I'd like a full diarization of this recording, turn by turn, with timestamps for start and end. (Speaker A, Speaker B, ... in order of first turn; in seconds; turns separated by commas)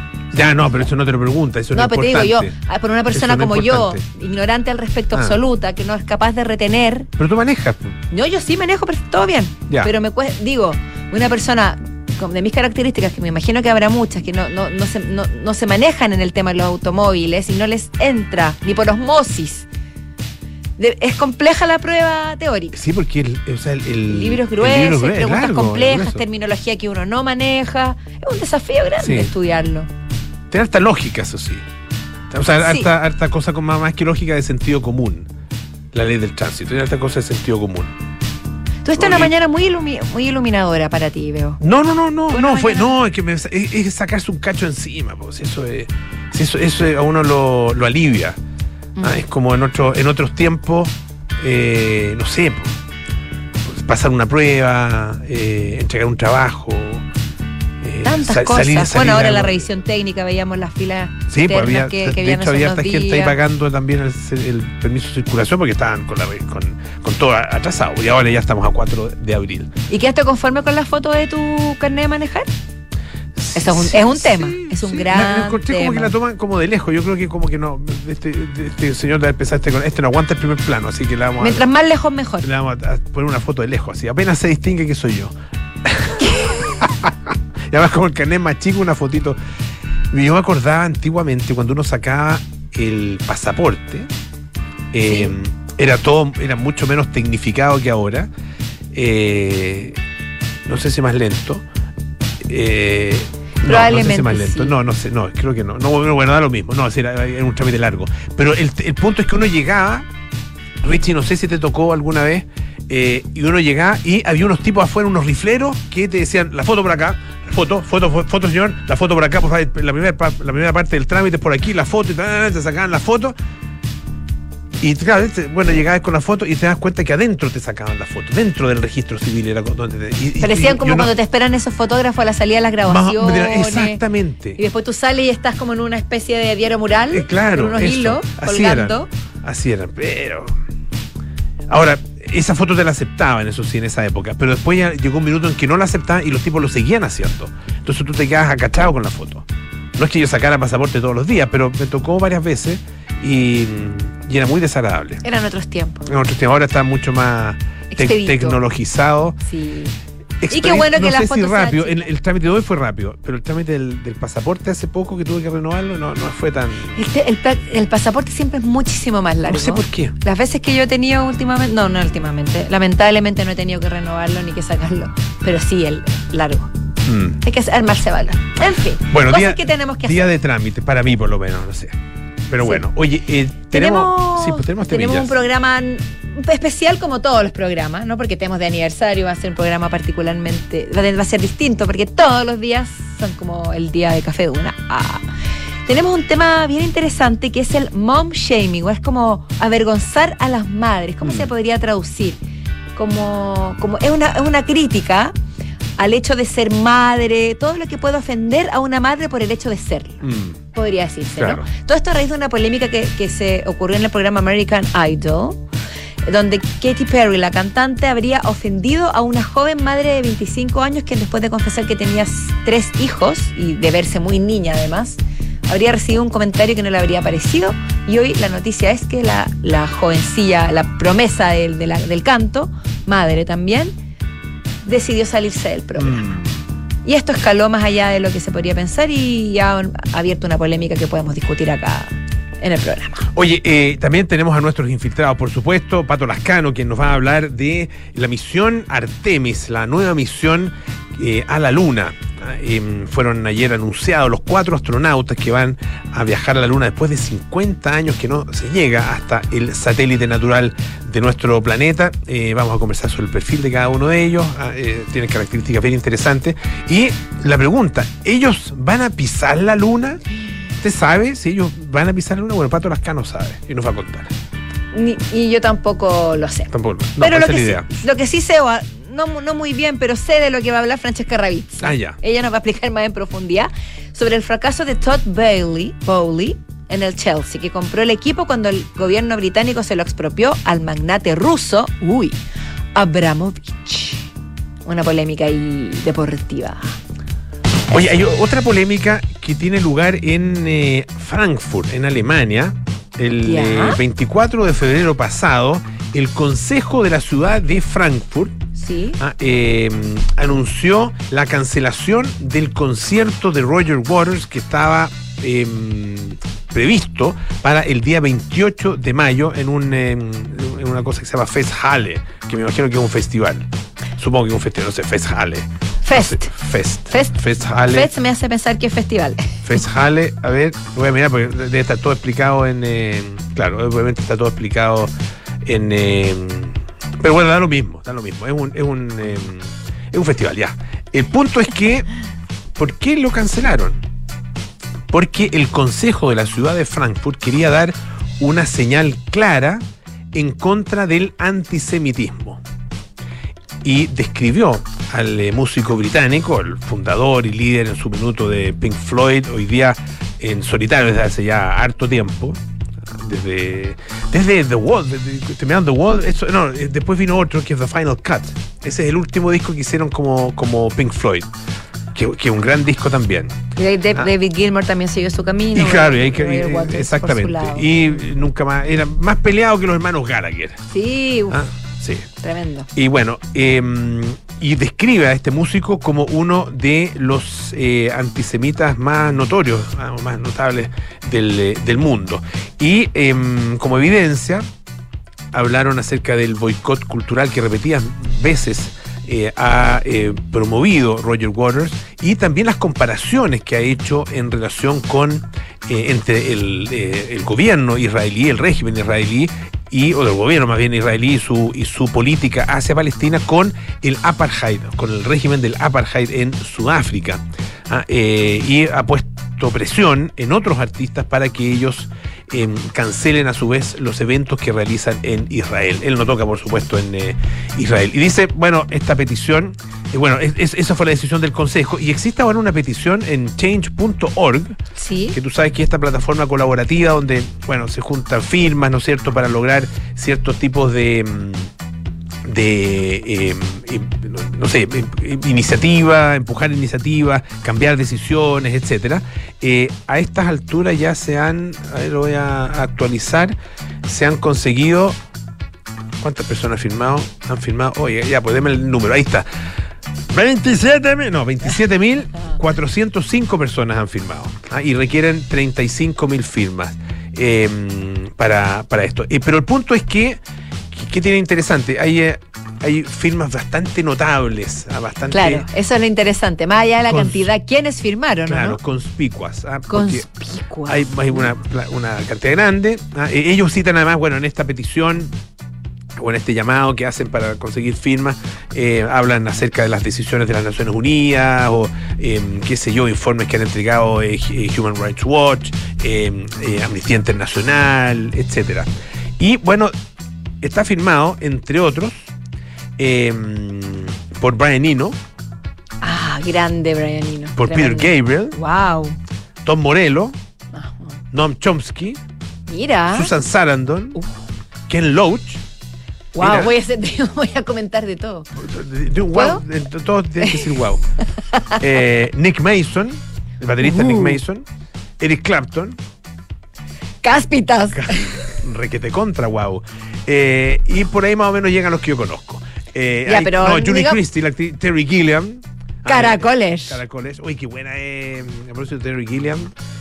Speaker A: 0.3-2.5, Speaker B: 1.7-7.1, Speaker A: 3.1-4.0, Speaker A: 7.2-8.0, Speaker B: 8.1-19.7, Speaker B: 20.8-22.8, Speaker A: 22.7-26.2, Speaker B: 24.1-29.9, Speaker A: 29.0-29.3, Speaker A: 30.5-31.6, Speaker A: 32.3-35.3, Speaker B: 32.6-32.9, Speaker A: 35.9-37.9, Speaker B: 38.8-41.6, Speaker A: 39.0-39.3, Speaker A: 41.6-48.4, Speaker B: 42.3-42.9, Speaker A: 49.0-52.7, Speaker A: 53.7-57.0, Speaker A: 57.8-59.6, Speaker B: 58.0-63.4, Speaker A: 61.3-69.7, Speaker B: 69.9-72.5, Speaker A: 73.4-81.7, Speaker B: 73.5-76.1, Speaker B: 81.4-82.5, Speaker A: 82.4-85.3, Speaker A: 85.8-89.4, Speaker B: 86.2-86.5, Speaker A: 90.1-94.1, Speaker A: 94.9-98.3, Speaker B: 95.1-95.3, Speaker A: 98.9-100.0, Speaker A: 100.7-101.6, Speaker A: 102.4-110.0, Speaker B: 103.6-104.7, Speaker A: 110.8-123.3, Speaker A: 124.8-131.1, Speaker B: 130.4-134.0, Speaker A: 132.8-134.6, Speaker B: 134.6-139.1, Speaker A: 137.1-140.5, Speaker A: 141.7-149.4, Speaker A: 150.0-155.2, Speaker B: 155.2-156.1, Speaker A: 156.1-159.4, Speaker B: 157.9-158.6, Speaker B: 159.4-159.9, Speaker A: 160.4-166.9, Speaker B: 160.5-162.1, Speaker B: 166.9-176.7, Speaker A: 169.5-170.1, Speaker A: 177.1-177.4, Speaker B: 177.4-180.3, Speaker A: 179.1-181.9, Speaker A: 182.5-185.3, Speaker B: 183.7-195.2, Speaker B: 195.9-202.4, Speaker B: 202.9-205.3, Speaker B: 206.0-210.2, Speaker A: 210.2-210.6, Speaker B: 210.7-215.6, Speaker A: 211.4-211.7, Speaker B: 216.2-233.9, Speaker B: 234.8-236.3, Speaker A: 236.0-236.6, Speaker B: 237.0-243.2, Speaker A: 243.3-270.2, Speaker A: 270.8-274.3, Speaker B: 274.9-292.4, Speaker A: 276.7-277.9, Speaker A: 281.8-282.2, Speaker B: 292.9-294.2, Speaker B: 294.9-296.9, Speaker A: 297.9-308.6, Speaker B: 303.4-304.0, Speaker B: 308.8-309.2, Speaker A: 309.2-328.1, Speaker B: 326.0-326.5, Speaker B: 327.1-327.4, Speaker B: 327.9-329.6, Speaker A: 329.6-335.1, Speaker A: 335.6-342.1, Speaker A: 342.8-344.0, Speaker A: 345.1-349.8, Speaker A: 350.3-352.6, Speaker A: 353.8-362.6, Speaker A: 363.1-371.5, Speaker A: 372.1-373.6, Speaker B: 373.8-378.1, Speaker A: 375.7-380.8, Speaker B: 380.9-381.6, Speaker A: 381.5-382.3, Speaker B: 382.4-382.9, Speaker A: 382.9-394.6, Speaker A: 395.5-434.8, Speaker B: 434.9-435.4, Speaker A: 435.3-441.7, Speaker A: 442.4-455.1, Speaker A: 456.2-459.4, Speaker A: 460.3-470.4, Speaker A: 470.9-475.7, Speaker B: 475.3-478.8, Speaker A: 477.1-477.5, Speaker A: 478.5-480.2, Speaker B: 479.9-481.5, Speaker A: 480.9-485.3, Speaker A: 486.2-499.9, Speaker A: 500.6-502.1, Speaker A: 503.0-505.1, Speaker B: 506.0-509.2, Speaker A: 507.6-508.6, Speaker A: 509.6-510.3, Speaker B: 510.7-511.2, Speaker A: 511.3-512.2, Speaker B: 512.7-513.3, Speaker A: 513.1-514.2, Speaker A: 514.9-515.6, Speaker B: 516.3-518.5, Speaker A: 516.4-516.7, Speaker A: 518.6-521.0, Speaker B: 519.3-519.6, Speaker A: 521.8-524.6, Speaker B: 523.8-524.4, Speaker A: 525.2-526.0, Speaker B: 527.2-528.3, Speaker A: 528.0-539.7, Speaker B: 533.2-534.2, Speaker B: 536.0-537.0